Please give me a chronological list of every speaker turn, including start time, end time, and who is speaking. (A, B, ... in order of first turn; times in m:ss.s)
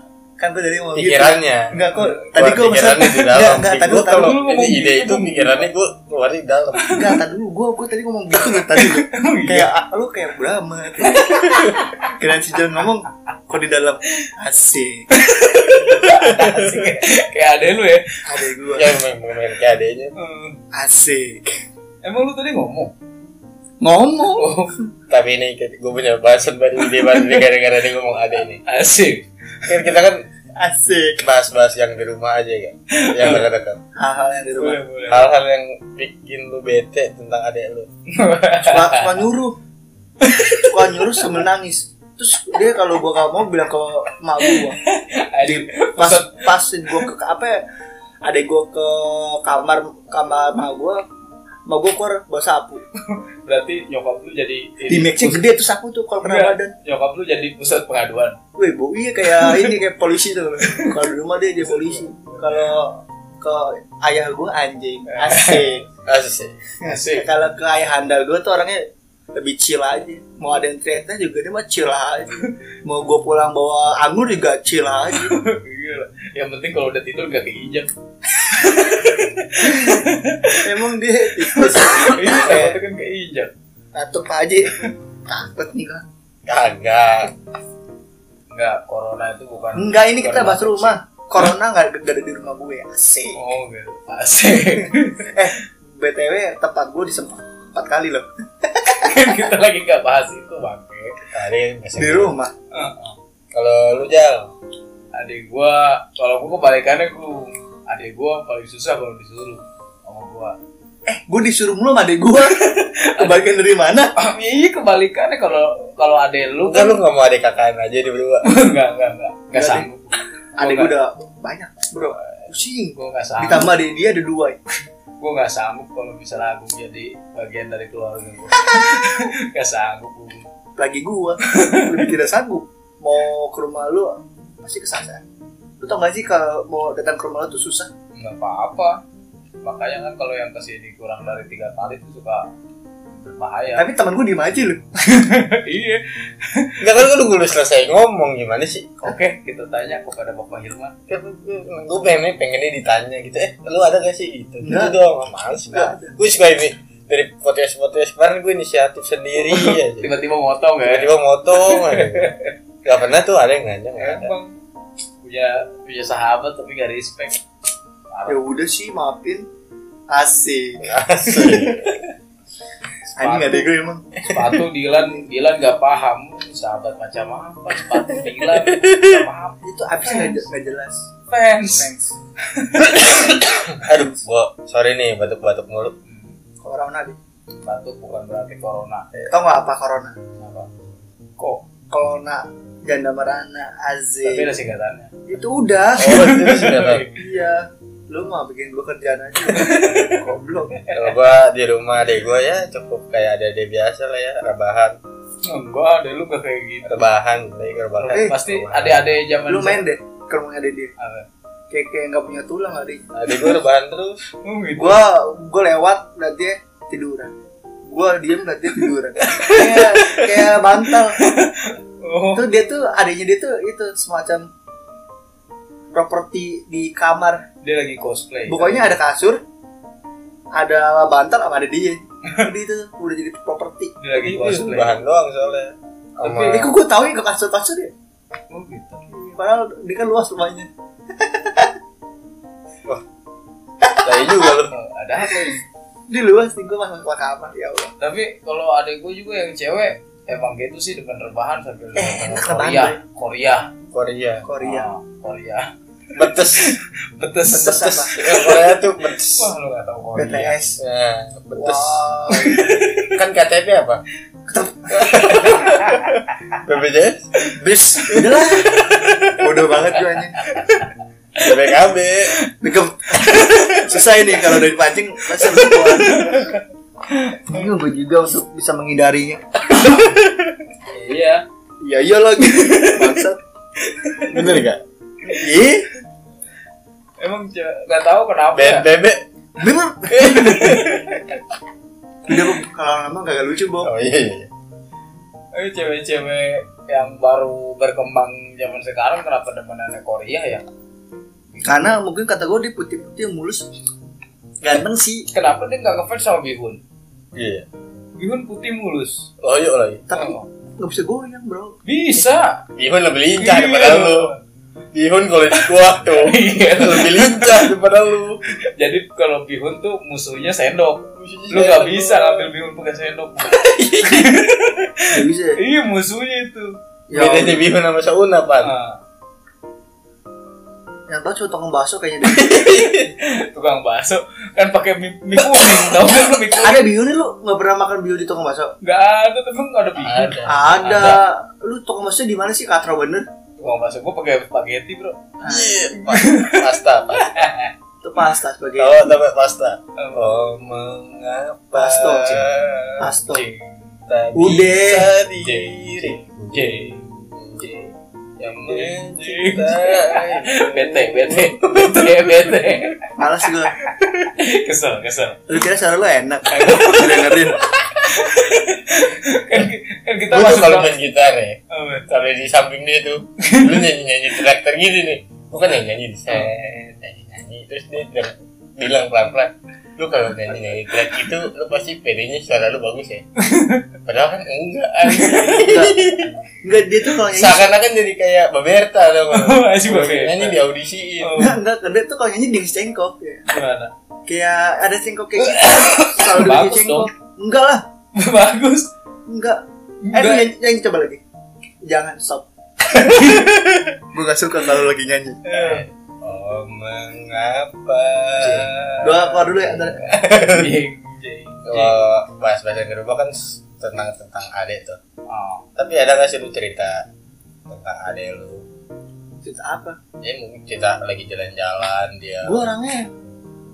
0:00.4-0:04.4 A
0:00.9-0:01.8 B
0:01.9-0:02.3 C
0:02.3-0:06.9 B
0:04.1-0:05.6 C
0:06.8-0:07.1 C
0:06.9-0:15.1 A
0:08.8-0:09.7 C
0:11.0-0:12.1 C
0:15.2-0:18.2 C
0:16.4-0:16.7 A
0:18.2-0:19.0 A
0:18.7-0:20.1 B
0:20.2-0:20.6 C
0:20.7-0:21.6 A
0:22.0-0:22.9 C
0:23.8-0:24.8 A
0:24.4-0:24.7 C
0:25.1-0:28.6 B
0:27.0-0:27.4 C
0:28.6-0:29.2 C
0:29.7-0:30.2 B
0:30.6-0:31.2 A
0:31.2-0:33.8 B
0:32.9-0:33.5 C
0:34.0-0:34.8 A
0:34.6-0:35.3 C
0:35.1-0:37.9 B
0:38.1-0:39.2 C
0:38.6-0:39.6 A
0:40.2-0:41.2 C
0:40.6-0:44.8 A
0:44.4-0:47.0 C
0:45.4-0:47.6 A
0:48.2-0:51.0 A
0:51.7-0:52.8 A
0:53.0-0:55.5 C
0:54.9-0:56.7 A
0:56.2-0:58.4 C
0:58.6-1:05.8 A
0:59.2-0:59.8 C
1:00.6-1:00.9 C
1:01.7-1:02.6 C
1:05.1-1:05.7 C
1:06.0-1:06.6 B
1:06.8-1:07.3 C
1:06.8-1:15.4 A
1:15.1-1:17.9 C
1:18.5-1:18.9 A
1:18.5-1:20.7 C
1:19.6-1:22.8 A
1:21.4-1:23.5 C
1:23.9-1:26.0 A
1:26.4-1:27.3 B
1:28.5-1:31.0 C
1:29.7-1:33.4 A
1:33.3-1:35.3 C
1:35.3-1:39.1 A
1:39.0-1:41.2 C
1:41.3-1:42.3 B
1:42.0-1:42.5 A
1:42.7-1:43.1 C
1:43.5-1:44.5 B
1:45.1-1:50.6 C
1:51.0-1:54.1 A
1:53.1-1:53.4 C
1:54.2-1:57.0 C
1:56.6-1:58.5 B
1:58.4-2:00.0 C
1:59.5-1:59.9 A
2:00.6-2:04.6 A
2:00.6-2:00.9 C
2:02.9-2:03.7 C
2:05.2-2:10.4 C
2:08.6-2:09.3 A
2:10.8-2:15.2 A
2:11.4-2:12.2 C
2:15.8-2:17.9 A
2:18.1-2:19.0 C
2:19.6-2:22.5 C
2:23.1-2:23.9 C
2:23.8-2:24.8 A
2:25.0-2:26.8 C
2:26.8-2:28.9 B
2:29.0-2:30.9 C
2:31.1-2:40.1 B
2:34.6-2:35.0 A
2:35.7-2:36.2 A
2:39.4-2:42.5 C
2:40.8-2:42.3 B
2:42.8-2:44.3 B
2:44.0-2:44.5 C
2:45.2-2:47.4 C
2:48.1-2:48.4 C
2:48.3-2:49.5 A
2:50.1-2:50.8 A
2:50.8-2:51.8 B
2:51.3-2:51.9 C
2:53.1-2:53.7 C
2:53.2-2:54.0 A
2:54.2-3:00.4 C
2:58.1-2:59.2 B
2:59.6-3:01.0 A
3:01.3-3:01.9 C
3:01.8-3:02.1 A
3:02.5-3:03.7 C
3:03.0-3:05.9 B
3:03.8-3:04.2 A
3:06.0-3:06.4 C
3:06.6-3:07.2 A
3:07.6-3:09.1 C
3:09.2-3:10.1 A
3:10.4-3:10.7 C
3:11.4-3:11.6 C
3:11.9-3:14.5 A
3:14.2-3:15.1 C
3:15.3-3:16.2 A
3:16.0-3:17.1 B
3:16.0-3:17.2 C
3:17.1-3:20.8 A
3:19.5-3:21.0 C
3:20.9-3:25.0 B
3:25.4-3:27.0 C
3:26.8-3:29.2 B
3:28.0-3:28.3 A
3:28.3-3:29.8 C
3:29.5-3:30.9 A
3:31.0-3:31.2 C
3:31.7-3:33.0 A
3:33.1-3:34.3 B
3:34.4-3:35.0 C
3:34.8-3:37.3 A
3:37.9-3:41.2 A
3:39.3-3:40.4 B
3:40.9-3:42.5 C
3:42.3-3:44.5 A
3:45.9-3:47.4 A
3:47.6-3:48.9 C
3:48.5-3:49.4 A
3:50.5-3:54.6 A
3:54.0-3:55.0 C
3:54.4-3:56.7 B
3:56.2-3:56.7 C
3:56.4-3:57.9 A
3:58.5-3:59.0 C
3:59.1-4:01.7 A
4:03.8-4:04.5 A
4:04.0-4:04.7 B
4:04.7-4:05.6 C
4:05.2-4:07.9 A
4:08.0-4:13.7 C
4:12.0-4:13.0 A
4:13.9-4:14.4 B
4:14.4-4:14.9 A
4:14.6-4:20.5 C
4:16.1-4:16.8 B
4:17.5-4:18.1 A
4:17.9-4:19.5 B
4:20.1-4:20.8 A
4:20.8-4:22.0 B
4:21.5-4:22.7 A
4:22.3-4:23.2 C
4:23.0-4:24.0 B
4:24.5-4:25.6 A
4:24.9-4:26.0 B
4:25.7-4:26.2 C
4:26.6-4:27.3 B
4:27.6-4:28.9 A
4:28.8-4:29.4 B
4:29.4-4:30.4 A
4:30.4-4:31.5 C
4:31.4-4:32.3 B
4:32.6-4:36.5 A
4:33.3-4:34.6 C
4:35.3-4:36.6 C
4:37.1-4:37.4 C
4:37.4-4:40.0 A
4:40.9-4:41.4 C
4:41.8-4:43.4 A
4:42.4-4:43.2 C
4:44.0-4:44.6 C
4:44.3-4:44.8 B
4:45.2-4:45.6 C
4:45.3-4:45.9 A
4:47.2-4:48.9 C
4:48.5-4:49.2 B
4:49.6-4:50.8 A
4:50.1-4:51.2 C
4:50.2-4:51.0 B
4:52.3-4:53.9 A
4:53.8-4:54.5 B
4:55.5-5:00.6 C
5:01.6-5:03.7 A
5:04.6-5:05.3 A
5:05.3-5:06.8 C
5:07.3-5:07.7 B
5:08.2-5:09.3 C
5:09.4-5:10.0 B
5:10.1-5:11.7 A
5:10.1-5:10.5 C
5:11.8-5:12.6 C
5:12.7-5:14.3 B
5:13.4-5:14.4 C
5:14.9-5:18.4 B
5:15.5-5:17.7 C
5:18.5-5:26.8 C
5:21.1-5:22.5 B
5:25.1-5:25.6 A
5:27.1-5:27.6 A
5:27.1-5:28.7 B
5:28.6-5:29.0 C
5:31.1-5:32.6 A
5:32.3-5:33.1 B
5:33.1-5:36.9 C
5:36.6-5:38.7 A
5:38.8-5:41.2 C
5:40.0-5:41.1 B
5:40.4-5:43.2 A
5:43.6-5:45.2 C
5:45.4-5:45.9 A
5:45.4-5:47.4 B
5:46.0-5:47.7 C
5:48.0-5:49.2 A
5:48.8-5:53.1 B
5:50.0-5:50.4 C
5:51.7-5:52.5 A
5:52.2-5:52.5 C
5:53.0-5:53.5 A
5:53.2-5:54.0 C
5:54.1-5:57.7 B
5:54.3-5:55.2 A
5:55.4-6:03.2 C
5:58.4-6:02.6 B
6:03.2-6:03.7 A
6:03.7-6:05.4 C
6:05.5-6:07.6 A
6:06.5-6:10.9 C
6:10.3-6:23.2 B
6:11.7-6:12.0 C
6:13.4-6:13.8 C
6:23.4-6:23.9 C
6:24.0-6:26.3 B
6:25.0-6:25.6 C
6:25.5-6:26.0 A
6:26.6-6:27.7 A
6:27.2-6:31.4 B
6:29.3-6:30.6 C
6:31.2-6:31.6 C
6:31.4-6:33.5 A
6:33.5-6:33.9 C
6:34.3-6:37.8 A
6:35.4-6:37.1 C
6:38.1-6:38.9 C
6:39.3-6:39.6 A
6:40.0-6:40.5 C
6:40.1-6:41.2 A
6:41.8-6:43.4 A
6:42.9-6:43.7 C
6:44.1-6:45.5 A
6:45.4-6:45.9 C
6:46.2-6:48.8 B
6:48.4-6:52.0 C
6:49.0-6:50.0 A
6:50.1-6:50.7 B
6:51.6-6:55.0 B
6:55.3-6:55.7 C
6:55.8-6:57.0 B
6:57.7-6:58.6 B
6:59.4-7:00.0 A
7:00.2-7:02.6 B
7:02.4-7:03.1 A